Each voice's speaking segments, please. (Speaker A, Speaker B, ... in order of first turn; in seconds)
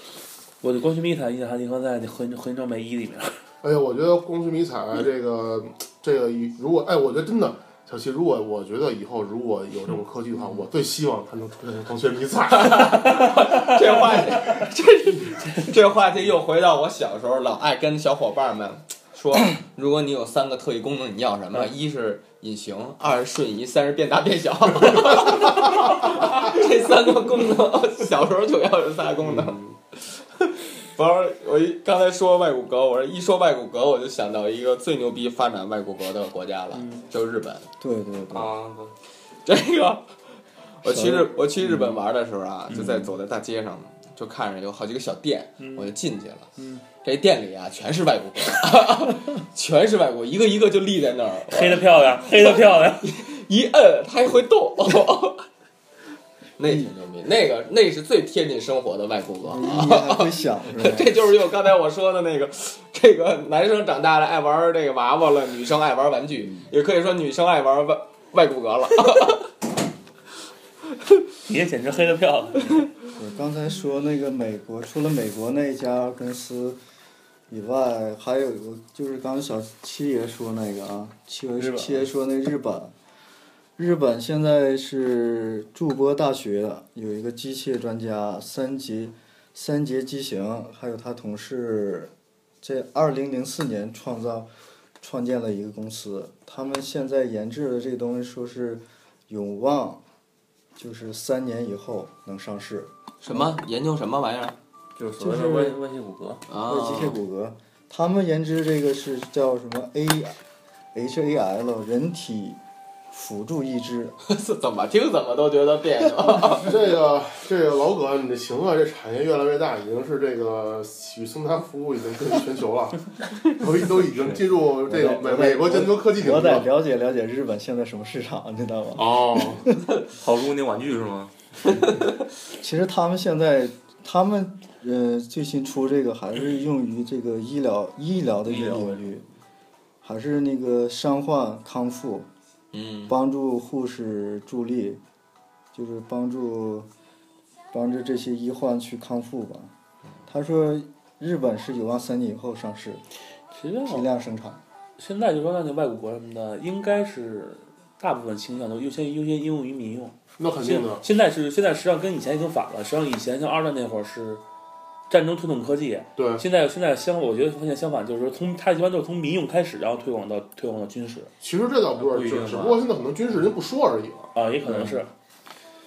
Speaker A: 0.6-3.4, 13.2-13.8, 36.7-37.0, 45.6-45.9, 46.6-46.8, 51.5-53.1, 71.5-72.9, 81.6-82.0, 153.5-154.1, 155.0-164.4, 165.1-171.3, 174.3-175.1
Speaker B: 3.6-13.3, 29.2-29.8, 116.5-126.7, 129.0-129.7, 160.4-161.1, 166.2-166.4, 171.4-174.3
Speaker C: 12.5-37.7, 39.5-40.2, 40.8-46.5, 47.0-55.5, 56.6-69.5, 103.2-104.6, 106.5-107.2, 114.2-116.8, 142.7-143.1
Speaker D: 37.8-38.5, 40.9-42.0, 42.7-43.1, 56.6-56.9, 59.4-61.3, 73.2-76.8, 77.5-82.9, 83.8-94.5, 95.0-100.0, 100.8-103.6, 105.2-105.8, 106.6-110.4, 110.9-112.6, 113.1-114.2, 124.8-129.8, 132.6-139.2, 140.0-142.3, 143.1-145.0, 145.7-146.9, 147.7-149.7, 150.3-153.0, 153.9-154.6
Speaker E: 38.3-38.9, 105.0-106.5, 130.1-131.3, 138.5-139.0, 172.0-172.9